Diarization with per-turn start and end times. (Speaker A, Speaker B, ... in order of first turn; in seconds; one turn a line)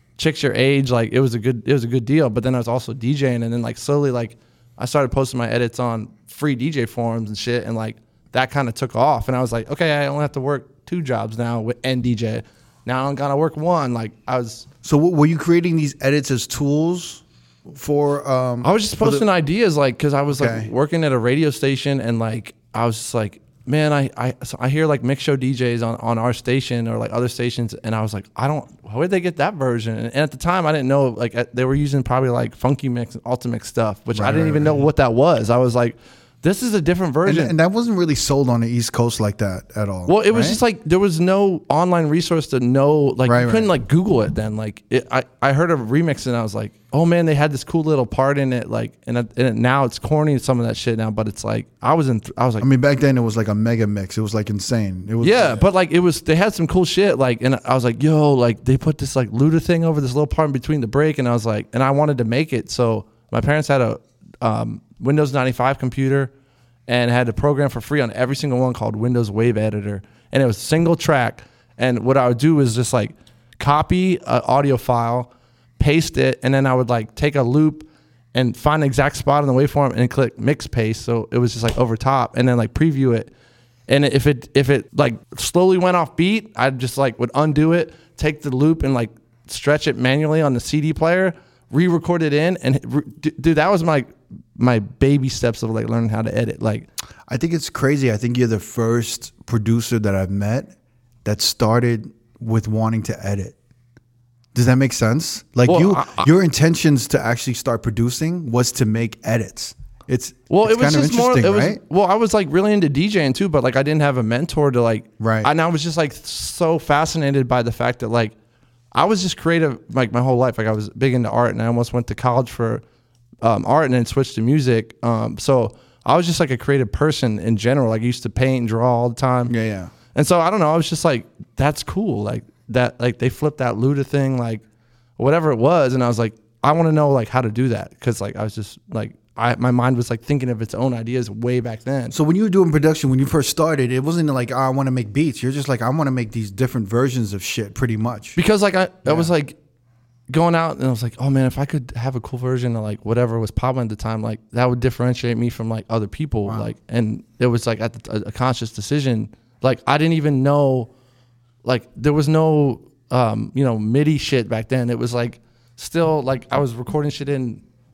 Speaker A: 0.2-14.7
Speaker B: 14.8-19.3
Speaker A: 18.6-37.6
Speaker B: 20.3-20.7
Speaker B: 34.1-34.9
Speaker B: 37.2-40.6
Speaker A: 40.1-52.7
Speaker B: 43.2-43.7
Speaker B: 52.6-55.6
Speaker A: 55.2-66.3
Speaker A: 66.9-83.3
Speaker A: 83.9-96.9
Speaker B: 97.3-100.7
Speaker B: 101.2-103.5
Speaker B: 104.5-111.8
Speaker A: 105.7-106.3
Speaker A: 110.5-118.3
Speaker B: 115.2-115.5
Speaker A: 118.9-122.8
Speaker A: 123.4-129.5
Speaker B: 129.5-129.9
Speaker A: 130.1-134.6
Speaker A: 135.2-142.2
Speaker B: 142.1-148.4
Speaker A: 148.4-149.6
Speaker A: 150.3-160.9
Speaker A: 161.6-167.6